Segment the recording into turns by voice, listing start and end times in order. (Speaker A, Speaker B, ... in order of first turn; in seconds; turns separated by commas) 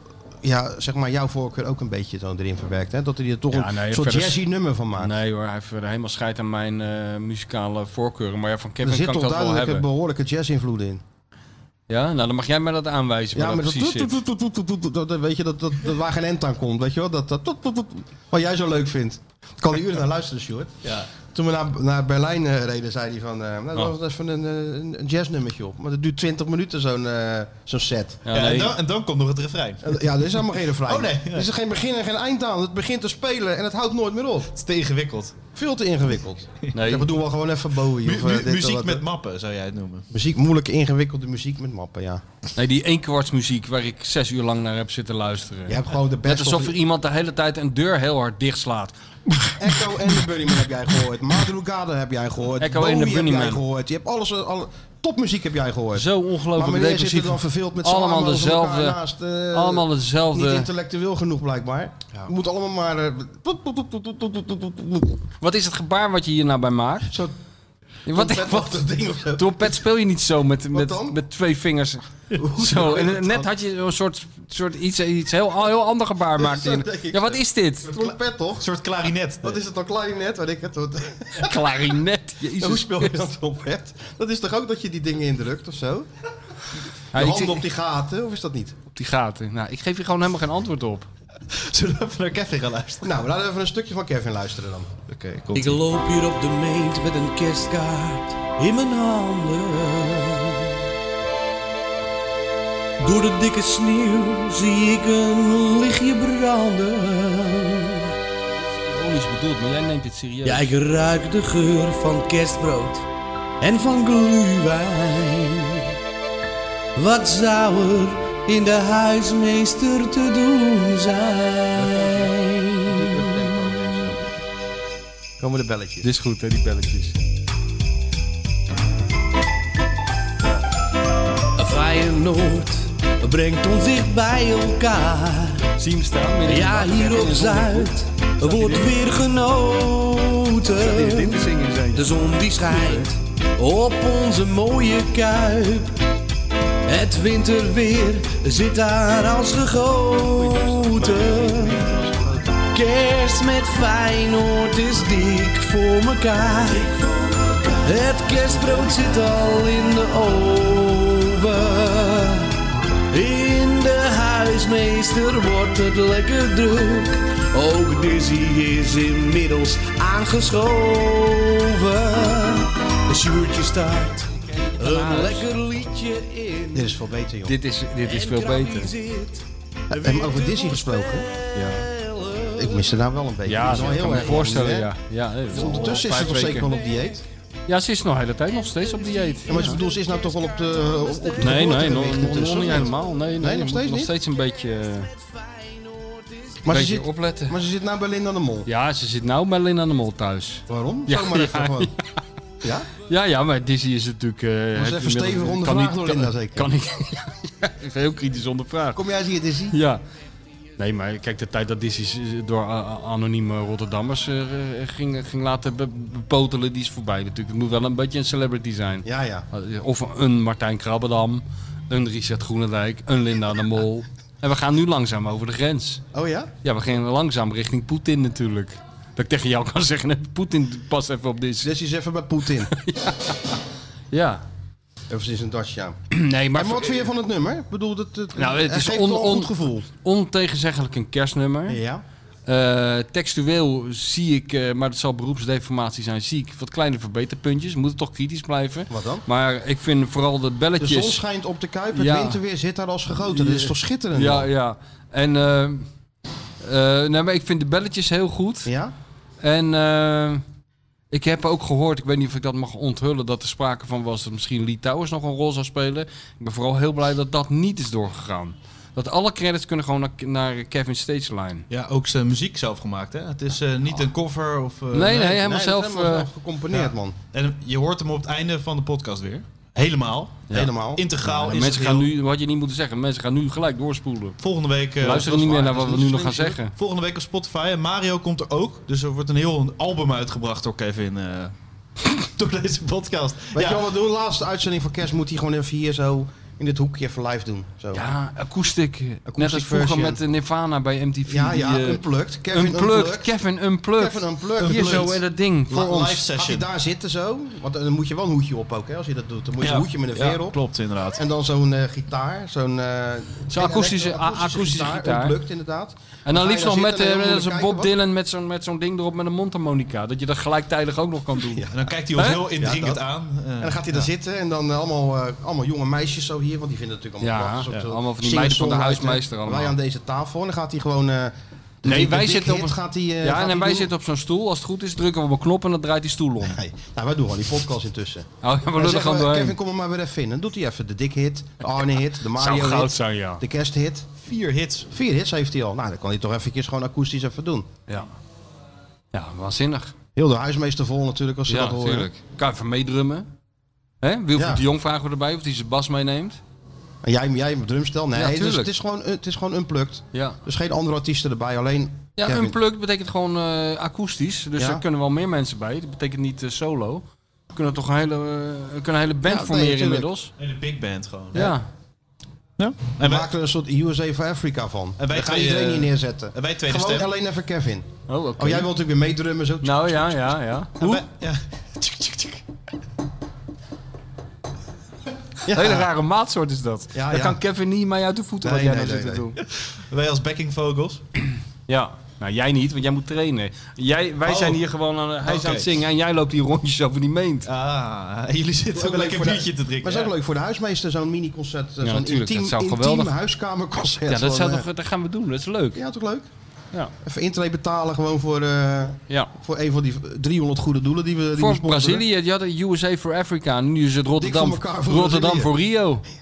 Speaker A: 0.4-5.1, Speaker B: 3.5-4.4, Speaker B: 5.0-9.8, Speaker A: 8.8-11.0, Speaker B: 11.9-14.2, Speaker A: 13.3-28.3, Speaker C: 20.8-21.1, Speaker B: 28.3-28.8, Speaker C: 28.3-30.0, Speaker A: 29.8-34.5, Speaker C: 30.9-31.5, Speaker C: 34.5-35.4, Speaker A: 35.5-39.0, Speaker B: 36.7-37.1, Speaker C: 38.0-40.1, Speaker A: 40.1-42.2, Speaker B: 42.6-49.0, Speaker A: 45.7-46.8, Speaker A: 49.6-65.2, Speaker B: 52.6-53.6, Speaker B: 56.0-59.0, Speaker B: 59.5-60.7, Speaker B: 65.4-67.1, Speaker A: 67.1-67.3, Speaker B: 68.1-78.1, Speaker A: 68.1-69.8, Speaker A: 70.7-71.2, Speaker A: 72.4-73.5, Speaker A: 76.4-78.7, Speaker C: 78.6-79.6, Speaker A: 79.4-81.9, Speaker B: 81.4-83.3, Speaker A: 82.5-86.1, Speaker B: 87.1-87.6, Speaker A: 87.1-88.8, Speaker B: 88.9-91.1, Speaker C: 91.5-93.1, Speaker A: 93.0-94.9, Speaker C: 95.1-95.8, Speaker D: 95.5-100.7, Speaker D: 103.0-108.1, Speaker B: 108.5-110.8, Speaker D: 110.5-113.1, Speaker D: 113.6-115.9, Speaker D: 117.0-124.1, Speaker A: 121.8-122.3, Speaker A: 122.8-124.3, Speaker A: 125.4-126.1, Speaker B: 126.0-127.2, Speaker D: 131.6-135.7, Speaker B: 135.8-139.0, Speaker D: 136.4-141.4, Speaker B: 140.8-143.1, Speaker D: 141.9-146.0, Speaker D: 146.9-151.9, Speaker A: 150.5-152.6, Speaker D: 152.6-162.6, Speaker D: 163.1-176.9, Speaker B: 174.4-175.5, Speaker A: 176.7-177.6, Speaker B: 177.4-178.9, Speaker D: 178.0-183.0, Speaker A: 179.9-181.3, Speaker B: 181.5-181.9, Speaker A: 182.6-184.9, Speaker B: 183.4-186.7, Speaker D: 183.6-184.7, Speaker A: 185.5-187.2, Speaker D: 185.5-187.2, Speaker B: 187.7-189.8, Speaker D: 188.5-193.3, Speaker A: 189.5-194.1, Speaker B: 191.4-195.1, Speaker D: 194.3-196.7, Speaker A: 196.7-198.7, Speaker B: 196.7-197.6, Speaker B: 198.7-202.1, Speaker A: 200.7-201.9, Speaker A: 202.6-202.9, Speaker B: 203.0-209.0, Speaker A: 204.8-206.7, Speaker A: 208.9-209.8, Speaker B: 209.7-210.0, Speaker B: 210.8-226.0, Speaker A: 219.1-219.5, Speaker A: 226.1-226.5, Speaker B: 226.6-231.7, Speaker A: 231.6-232.7, Speaker B: 232.7-233.3, Speaker B: 234.1-234.4, Speaker A: 235.1-236.0, Speaker B: 236.1-237.1, Speaker A: 236.5-239.9, Speaker B: 238.4-241.8, Speaker A: 241.7-242.0, Speaker B: 242.5-251.2, Speaker A: 248.9-249.2, Speaker A: 250.8-254.5, Speaker B: 251.9-252.4, Speaker B: 253.2-255.9, Speaker B: 256.6-258.7, Speaker A: 258.6-258.9, Speaker B: 259.4-260.4, Speaker B: 261.1-271.7, Speaker C: 271.7-275.3, Speaker B: 274.9-276.3, Speaker A: 275.1-277.2, Speaker C: 276.7-282.1, Speaker B: 280.5-284.4, Speaker A: 280.5-281.1, Speaker C: 284.4-293.9, Speaker B: 285.0-286.7, Speaker A: 293.5-298.1, Speaker B: 297.9-306.3, Speaker A: 299.3-300.2, Speaker A: 301.3-303.4, Speaker A: 304.0-310.6, Speaker C: 304.6-305.2, Speaker C: 306.1-306.7, Speaker C: 309.6-311.2, Speaker A: 311.2-317.9, Speaker B: 313.5-315.4, Speaker B: 316.3-322.4, Speaker A: 321.4-321.9, Speaker C: 321.7-323.8, Speaker A: 322.5-323.0, Speaker A: 323.6-333.9, Speaker B: 327.2-329.7, Speaker B: 331.9-336.6, Speaker A: 336.4-344.2, Speaker B: 338.4-339.6, Speaker B: 342.4-343.4, Speaker C: 344.2-344.9, Speaker A: 344.9-347.7, Speaker B: 349.1-349.9, Speaker A: 350.2-352.1, Speaker B: 351.5-353.3, Speaker B: 354.0-356.4, Speaker A: 354.4-354.6, Speaker A: 357.0-362.6, Speaker B: 358.1-358.7, Speaker B: 360.1-360.4, Speaker B: 362.2-370.3, Speaker A: 364.6-364.8, Speaker A: 369.2-370.1, Speaker C: 370.4-371.6, Speaker B: 371.3-371.7, Speaker C: 372.6-373.3, Speaker A: 373.0-380.4, Speaker C: 375.0-377.1, Speaker B: 378.1-378.7, Speaker B: 379.6-381.0, Speaker C: 380.8-382.4, Speaker A: 385.5-385.9, Speaker B: 385.5-389.4, Speaker A: 386.9-387.4, Speaker A: 388.4-389.3, Speaker C: 389.6-391.0, Speaker B: 391.7-397.5, Speaker C: 394.2-394.6, Speaker C: 395.2-395.8, Speaker C: 397.4-400.1, Speaker A: 398.8-404.7, Speaker B: 401.8-403.1, Speaker B: 404.1-405.8, Speaker A: 405.8-406.3, Speaker A: 407.0-412.1, Speaker B: 411.4-416.1, Speaker A: 414.2-415.6